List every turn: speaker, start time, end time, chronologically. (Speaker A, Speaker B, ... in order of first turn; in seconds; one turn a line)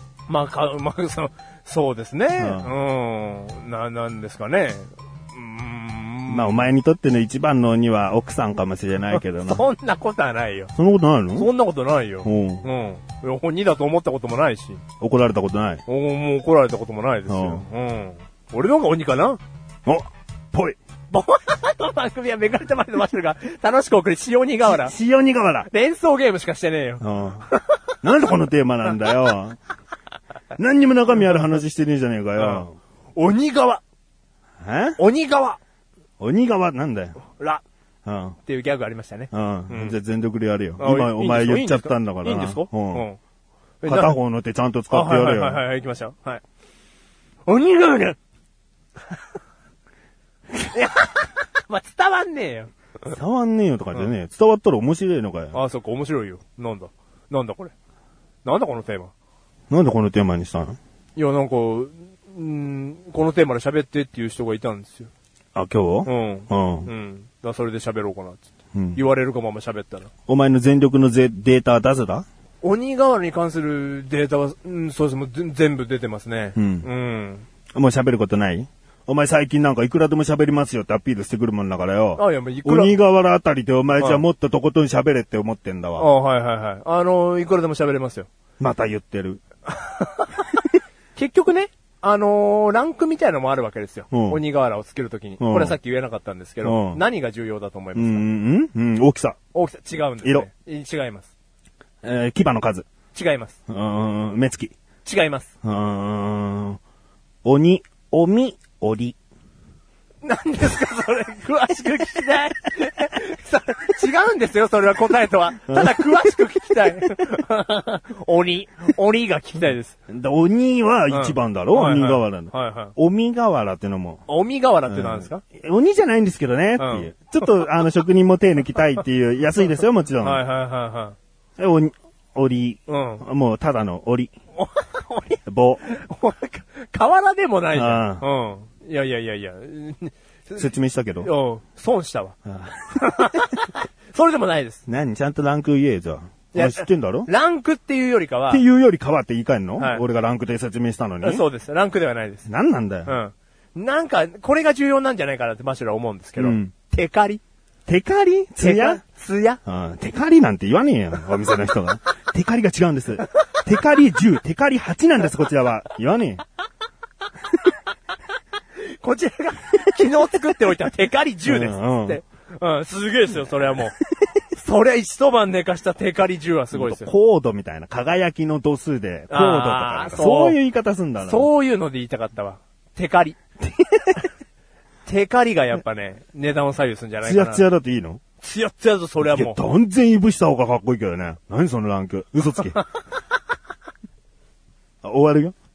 Speaker A: 0.3-6.7
Speaker B: 2.4-2.7
Speaker B: 6.3-9.7
Speaker A: 9.1-10.7
Speaker B: 10.8-11.5
Speaker A: 11.3-14.8
Speaker B: 12.2-12.7
Speaker B: 15.0-15.8
Speaker A: 15.9-19.4
Speaker B: 17.3-17.6
Speaker B: 19.9-20.8
Speaker A: 21.1-24.9
Speaker B: 24.6-25.7
Speaker A: 25.7-27.6
Speaker B: 27.0-27.5
Speaker B: 28.0-29.6
Speaker B: 30.6-32.8
Speaker A: 32.4-33.8
Speaker B: 34.6-35.0
Speaker A: 35.0-35.6
Speaker B: 36.2-37.2
Speaker A: 37.3-37.6
Speaker B: 38.0-38.4
Speaker A: 38.5-40.0
Speaker B: 39.3-43.1
Speaker A: 40.8-43.2
Speaker A: 43.8-44.2
Speaker B: 43.9-45.6
Speaker A: 44.9-46.4
Speaker A: 47.5-48.2
Speaker A: 50.7-52.7
Speaker B: 53.1-55.6
Speaker A: 55.5-57.7
Speaker A: 58.5-59.1
Speaker B: 59.7-60.8
Speaker A: 61.2-65.1
Speaker B: 65.5-66.9
Speaker A: 66.1-70.1
Speaker B: 68.7-69.0
Speaker B: 70.3-72.2
Speaker A: 72.6-77.5
Speaker B: 76.6-76.9
Speaker B: 77.7-86.1
Speaker A: 82.2-83.0
Speaker A: 86.0-88.3
Speaker B: 88.6-89.4
Speaker A: 89.7-90.4
Speaker A: 91.2-98.3
Speaker B: 94.1-94.4
Speaker B: 95.4-95.8
Speaker B: 96.6-97.0
Speaker B: 98.0-99.4
Speaker A: 99.5-101.3
Speaker B: 102.0-102.9
Speaker A: 103.1-103.6
Speaker B: 103.7-104.7
Speaker A: 105.0-105.5
Speaker B: 105.6-106.8
Speaker B: 107.4-109.2
Speaker A: 110.2-120.0
Speaker B: 115.7-116.3
Speaker B: 120.1-124.2
Speaker A: 121.1-122.9
Speaker A: 124.3-125.4
Speaker B: 124.9-130.4
Speaker A: 126.8-127.1
Speaker A: 130.2-131.2
Speaker B: 131.6-134.3
Speaker A: 132.9-133.2
Speaker A: 134.6-142.4
Speaker B: 135.5-135.8
Speaker B: 137.7-138.3
Speaker B: 140.6-141.3
Speaker B: 142.5-143.5
Speaker A: 142.9-144.8
Speaker B: 144.9-147.3
Speaker A: 146.5-148.6
Speaker B: 148.5-151.5
Speaker A: 149.8-150.0
Speaker A: 151.2-152.5
Speaker B: 152.5-153.2
Speaker A: 153.1-157.4
Speaker B: 156.4-156.7
Speaker B: 157.9-159.0
Speaker A: 158.6-159.6
Speaker B: 159.7-166.4
Speaker A: 168.8-174.0
Speaker B: 171.4-172.2
Speaker A: 174.5-177.1
Speaker B: 176.7-181.5
Speaker A: 179.3-180.6
Speaker A: 181.2-183.4
Speaker B: 183.6-184.2
Speaker A: 185.1-187.6
Speaker B: 187.2-188.2
Speaker A: 188.4-189.6
Speaker B: 189.2-192.8
Speaker B: 195.0-195.6